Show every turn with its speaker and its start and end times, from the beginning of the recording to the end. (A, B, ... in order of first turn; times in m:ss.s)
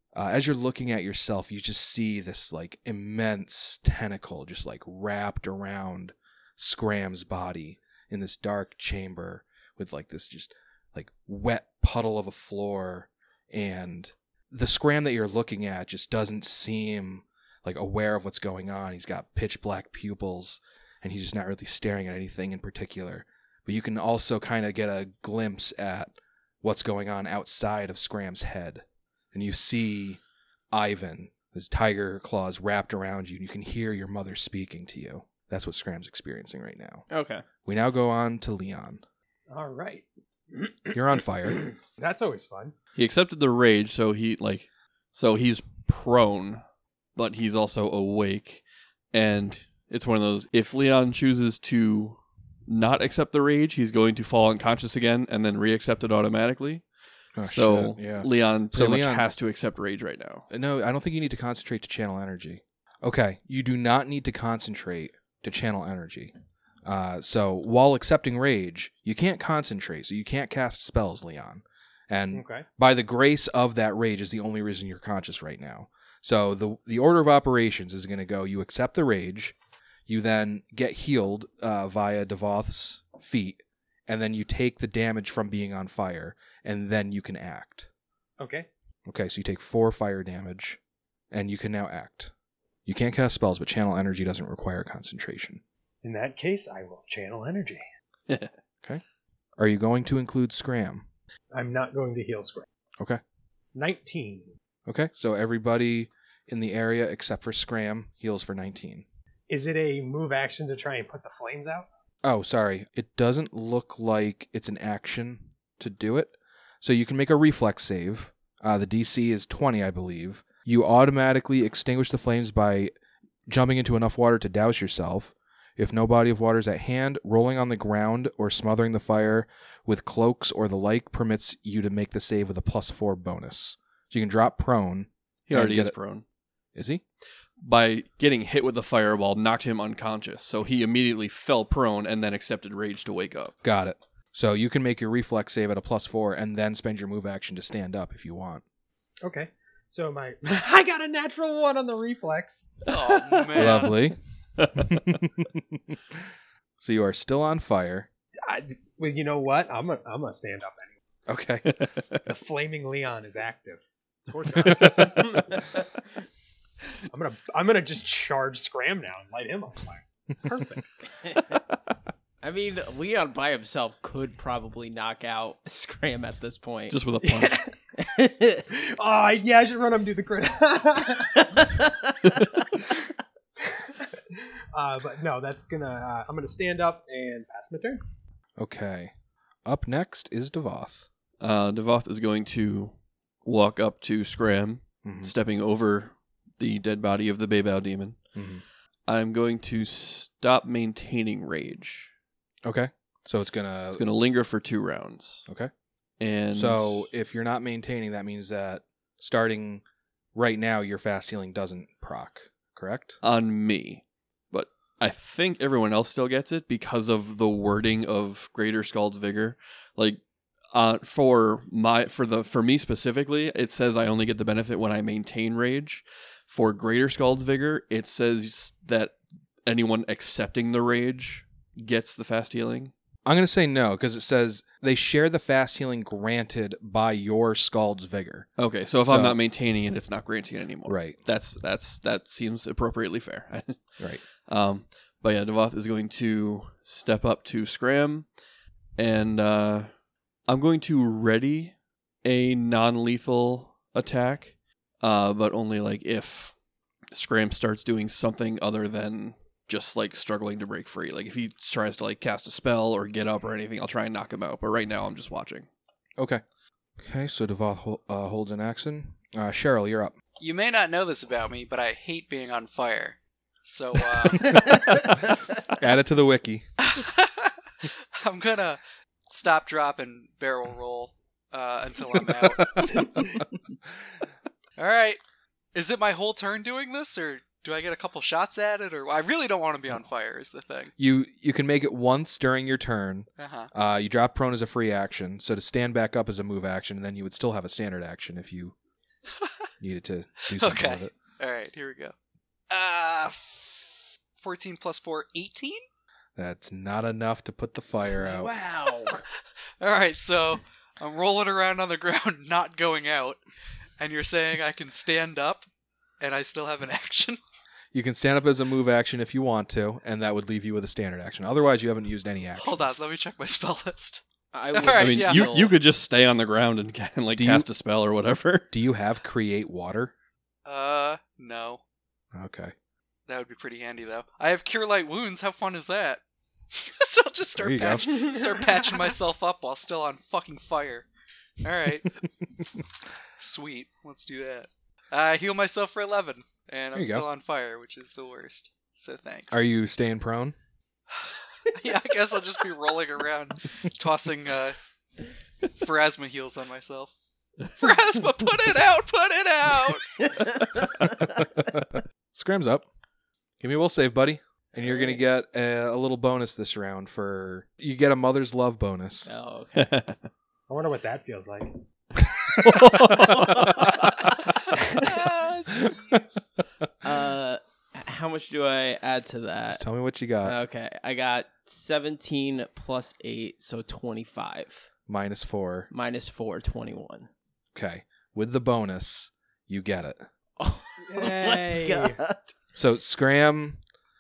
0:00.1-0:30.2 A
0:30.7-0:37.0 A
0:37.1-0:37.4 B
0:37.7-0:39.0 A
0:39.5-0:42.7 C
0:40.9-0:41.6 A
0:43.0-0:46.6 D
0:47.2-0:48.6 D
0:49.1-0:56.8 D
0:57.4-0:59.2 A
0:57.4-1:00.5 D
1:00.5-1:06.3 A
1:06.8-1:19.6 A
1:12.3-1:12.6 C
1:20.1-1:27.9 A
1:28.4-1:28.7 C
1:29.1-1:30.8 A
1:31.3-1:32.3 A
1:32.9-1:35.6 A
1:36.0-1:37.8 C
1:39.6-1:41.1 A
1:41.5-1:42.7 C
1:43.8-1:44.5 C
1:44.9-1:49.0 A
1:49.5-1:51.9 C
1:52.2-2:02.9 A
2:03.5-2:16.0 A
2:15.5-2:16.2 D
2:16.7-2:17.0 A
2:17.6-2:23.6 D
2:23.6-2:28.6 A
2:29.2-2:32.9 C
2:32.9-2:34.0 E
2:33.6-2:34.2 A
2:34.6-2:34.9 D
2:34.7-2:36.0 A
2:36.8-2:38.1 A
2:38.4-2:40.9 C
2:41.3-2:41.7 A
2:41.7-2:42.2 D
2:42.3-2:45.6 C
2:44.6-2:45.6 D
2:47.1-2:50.8 C
2:51.2-2:51.6 B
2:52.4-2:57.0 B
2:56.9-2:57.6 D
2:57.2-2:57.7 C
2:58.0-2:58.6 B
2:58.7-3:01.5 C
3:01.5-3:01.9 B
3:03.6-3:08.0 C
3:08.6-3:09.1 A
3:09.6-3:11.1 A
3:11.4-3:12.9 D
3:13.4-3:18.2 D
3:15.0-3:15.3 A
3:18.4-3:18.6 A
3:19.1-3:22.1 D
3:22.6-3:24.0 A
3:23.9-3:25.5 D
3:26.2-3:27.1 D
3:26.5-3:29.8 A
3:30.4-3:33.2 A
3:33.2-3:40.2 D
3:40.7-3:52.9 D
3:53.2-3:58.5 A
3:58.6-4:08.3 D
3:59.0-3:59.4 A
4:00.8-4:01.2 A
4:09.0-4:09.9 D
4:10.5-4:16.6 D
4:17.1-4:25.7 D
4:27.0-4:30.2 A
4:30.4-4:34.8 E
4:34.3-4:36.7 A
4:36.8-4:43.4 E
4:44.8-4:45.2 E
4:45.7-4:50.9 E
4:51.0-4:58.8 A
4:53.4-4:53.7 E
4:59.3-4:59.6 E
4:59.8-5:01.1 A
5:00.5-5:02.1 E
5:02.7-5:05.8 E
5:06.4-5:08.5 A
5:08.2-5:09.2 B
5:09.8-5:13.4 E
5:14.0-5:15.7 E
5:16.2-5:17.4 E
5:17.9-5:23.0 A
5:22.6-5:24.2 E
5:24.5-5:25.8 B
5:24.7-5:25.5 E
5:24.8-5:28.7 D
5:27.4-5:27.7 A
5:28.7-5:30.1 A
5:30.6-5:31.8 E
5:32.3-5:32.7 A
5:33.3-5:36.2 E
5:36.7-5:41.1 E
5:37.5-5:38.1 A
5:38.1-5:38.4 C
5:41.6-5:42.1 E
5:43.4-5:49.6 E
5:46.9-5:47.2 A
5:49.5-5:50.6 A
5:51.1-5:54.8 E
5:55.8-5:57.1 E
5:57.8-6:00.3 E
6:00.4-6:00.8 B
6:01.0-6:02.8 A
6:03.6-6:09.3 A
6:09.3-6:09.9 B
6:09.8-6:10.2 D
6:10.7-6:11.8 C
6:12.6-6:13.7 D
6:12.6-6:13.2 A
6:13.2-6:13.7 B
6:14.4-6:16.4 E
6:17.0-6:19.8 B
6:19.7-6:20.6 A
6:20.4-6:24.9 B
6:25.1-6:25.9 A
6:25.9-6:27.3 B
6:27.7-6:30.2 A
6:30.6-6:32.5 B
6:31.0-6:32.2 C
6:32.8-6:33.8 A